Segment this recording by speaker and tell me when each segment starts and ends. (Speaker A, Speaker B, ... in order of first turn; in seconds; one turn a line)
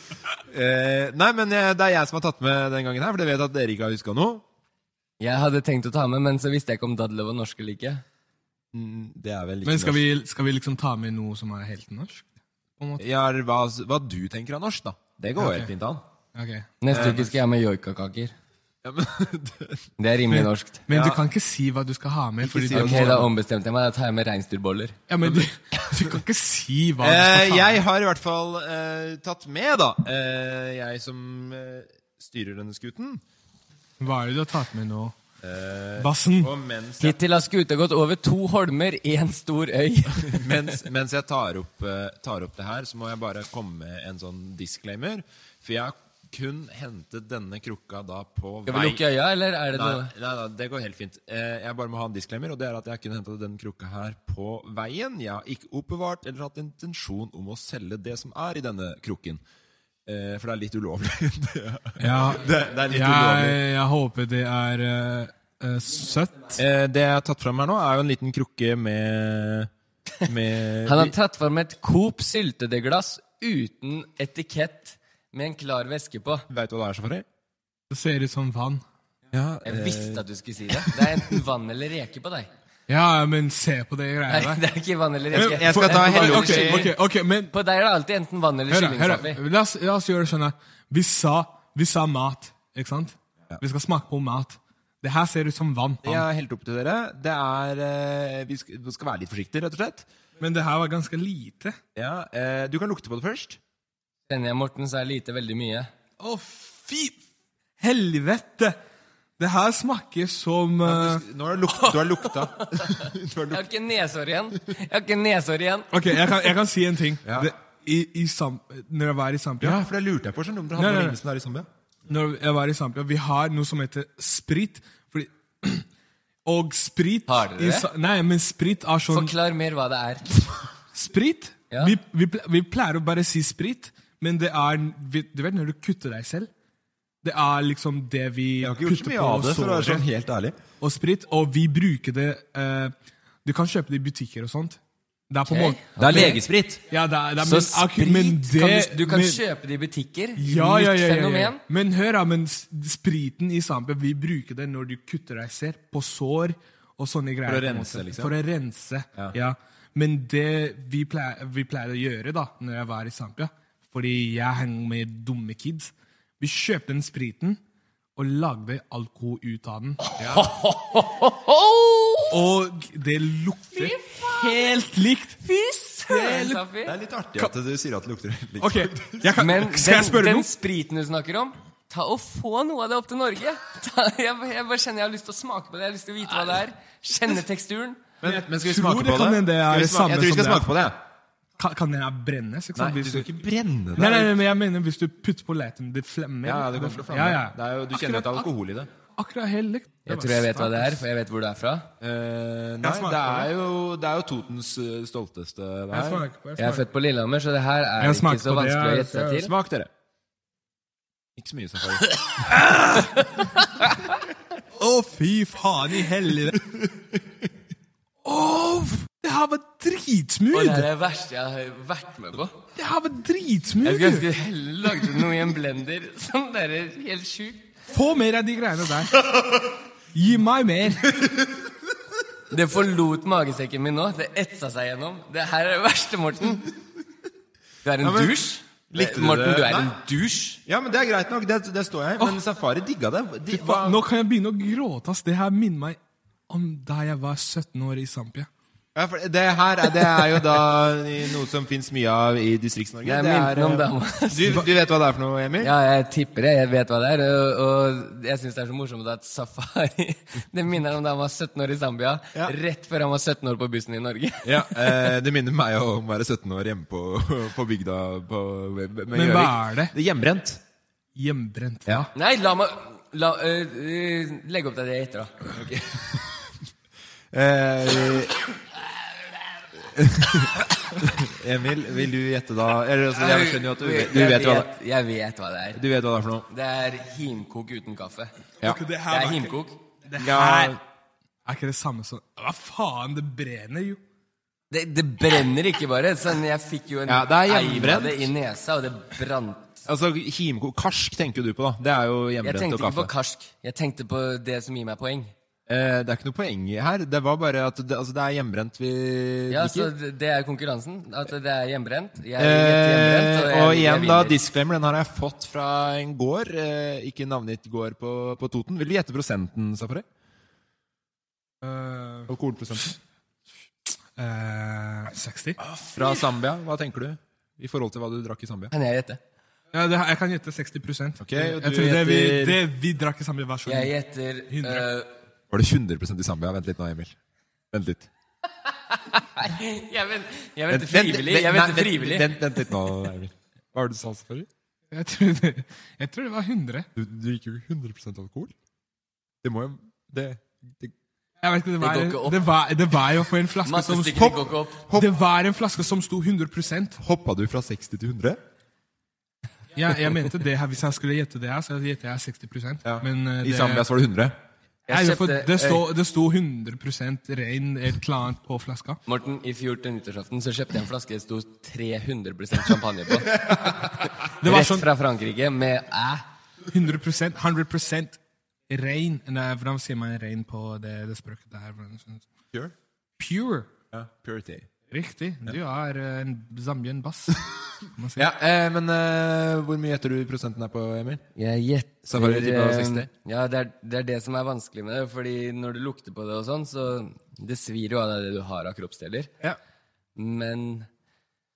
Speaker A: 0.5-4.4
Speaker B: 5.2-8.0
Speaker A: 8.7-10.0
Speaker C: 9.6-12.3
Speaker C: 12.8-13.0
Speaker A: 13.0-16.0
Speaker C: 15.4-15.7
Speaker C: 16.3-17.3
Speaker B: 16.8-18.3
Speaker A: 16.9-17.3
Speaker A: 18.8-19.9
Speaker B: 20.0-20.8
Speaker C: 20.3-23.2
Speaker A: 20.9-21.2
Speaker A: 22.4-23.3
Speaker B: 22.7-25.0
Speaker C: 25.1-27.8
Speaker A: 25.2-26.2
Speaker A: 27.0-33.2
Speaker C: 34.0-35.1
Speaker A: 35.4-37.2
Speaker C: 36.0-36.5
Speaker B: 37.0-40.7
Speaker A: 40.2-49.0
Speaker B: 48.7-50.1
Speaker A: 49.7-59.4
Speaker A: 60.0-63.6
Speaker C: 62.0-66.6
Speaker A: 66.5-69.7
Speaker A: 70.2-71.1
Speaker B: 70.8-76.4
Speaker A: 76.5-77.2
Speaker C: 77.9-78.8
Speaker A: 79.3-80.2
Speaker B: 79.7-82.5
Speaker C: 82.9-84.6
Speaker B: 84.3-86.9
Speaker A: 85.3-86.9
Speaker C: 85.3-87.5
Speaker B: 87.5-89.4
Speaker C: 88.7-96.2
Speaker A: 96.0-100.1
Speaker C: 100.4-101.8
Speaker A: 101.9-103.6
Speaker B: 104.3-105.9
Speaker C: 106.2-107.2
Speaker C: 107.8-108.8
Speaker C: 109.4-111.2
Speaker A: 110.8-113.7
Speaker B: 111.8-115.9
Speaker C: 115.9-119.8
Speaker A: 117.2-117.5
Speaker A: 119.6-121.7
Speaker C: 120.8-121.2
Speaker C: 122.1-125.8
Speaker C: 126.5-129.3
Speaker B: 127.3-127.9
Speaker B: 129.1-130.3
Speaker C: 130.9-136.5
Speaker B: 131.7-131.9
Speaker C: 137.2-140.1
Speaker A: 138.6-140.6
Speaker C: 140.8-142.9
Speaker C: 143.4-144.8
Speaker C: 145.3-149.4
Speaker B: 145.5-146.4
Speaker A: 146.0-146.8
Speaker B: 147.4-151.6
Speaker C: 150.4-167.6
Speaker A: 157.4-158.3
Speaker C: 168.2-170.0
Speaker B: 170.2-172.3
Speaker A: 170.2-170.5
Speaker C: 172.3-175.4
Speaker B: 173.8-174.7
Speaker B: 175.4-176.9
Speaker C: 176.1-176.6
Speaker A: 176.8-179.4
Speaker C: 178.6-180.5
Speaker B: 179.4-188.0
Speaker A: 188.2-191.0
Speaker C: 188.2-190.7
Speaker C: 191.6-193.3
Speaker A: 192.8-194.3
Speaker C: 193.9-198.5
Speaker A: 196.4-198.9
Speaker C: 199.2-201.0
Speaker B: 200.1-201.9
Speaker A: 202.0-206.2
Speaker C: 202.8-203.5
Speaker C: 205.9-206.8
Speaker B: 206.6-209.5
Speaker C: 208.0-209.4
Speaker A: 209.4-209.9
Speaker A: 211.3-212.1
Speaker C: 212.6-213.0
Speaker B: 213.4-213.9
Speaker C: 214.8-216.6
Speaker A: 216.7-217.1
Speaker C: 218.2-220.9
Speaker B: 220.5-222.6
Speaker C: 222.8-224.2
Speaker B: 223.8-227.6
Speaker C: 227.9-229.2
Speaker C: 230.1-231.1
Speaker B: 232.5-236.7
Speaker B: 237.8-240.6
Speaker A: 238.0-238.4
Speaker A: 238.9-239.9
Speaker A: 240.7-244.0
Speaker C: 243.5-246.0
Speaker C: 246.5-248.5
Speaker A: 248.9-255.7
Speaker B: 253.0-254.6
Speaker B: 255.6-265.1
Speaker A: 264.4-270.6
Speaker C: 269.1-269.9
Speaker C: 271.1-272.1
Speaker B: 272.1-275.4
Speaker A: 275.5-276.5
Speaker A: 277.3-278.4
Speaker A: 279.8-284.7
Speaker B: 283.1-285.8
Speaker A: 285.7-286.5
Speaker B: 286.5-288.3
Speaker C: 288.6-290.8
Speaker B: 289.1-289.8
Speaker A: 290.2-290.8
Speaker C: 291.4-294.0
Speaker B: 294.7-299.8
Speaker A: 297.1-298.3
Speaker A: 299.8-303.1
Speaker B: 302.4-305.3
Speaker A: 305.7-309.9
Speaker B: 309.5-314.4
Speaker A: 312.4-320.1
Speaker C: 321.6-322.3
Speaker A: 322.3-322.9
Speaker C: 324.1-325.6
Speaker A: 325.8-328.7
Speaker B: 328.7-329.2
Speaker C: 329.7-333.9
Speaker A: 331.2-332.6
Speaker B: 333.6-335.1
Speaker C: 334.5-334.9
Speaker A: 335.5-337.1
Speaker A: 337.7-338.1
Speaker B: 338.9-342.4
Speaker A: 340.7-344.5
Speaker C: 344.9-346.9
Speaker A: 346.9-348.5
Speaker A: 349.4-350.9
Speaker C: 351.4-354.4
Speaker B: 351.8-352.4
Speaker B: 353.6-354.8
Speaker A: 354.8-355.1
Speaker C: 354.9-357.0
Speaker A: 357.0-358.4
Speaker C: 359.7-363.9
Speaker A: 362.8-364.4
Speaker B: 364.9-365.9
Speaker C: 364.9-369.0
Speaker B: 369.1-376.2
Speaker C: 374.4-374.9
Speaker C: 376.7-378.2
Speaker C: 378.7-382.2
Speaker C: 383.2-383.7
Speaker A: 383.9-384.7
Speaker C: 384.9-387.4
Speaker C: 387.9-388.3
Speaker A: 388.1-391.2
Speaker B: 391.4-399.3
Speaker A: 392.1-393.1
Speaker B: 400.1-400.9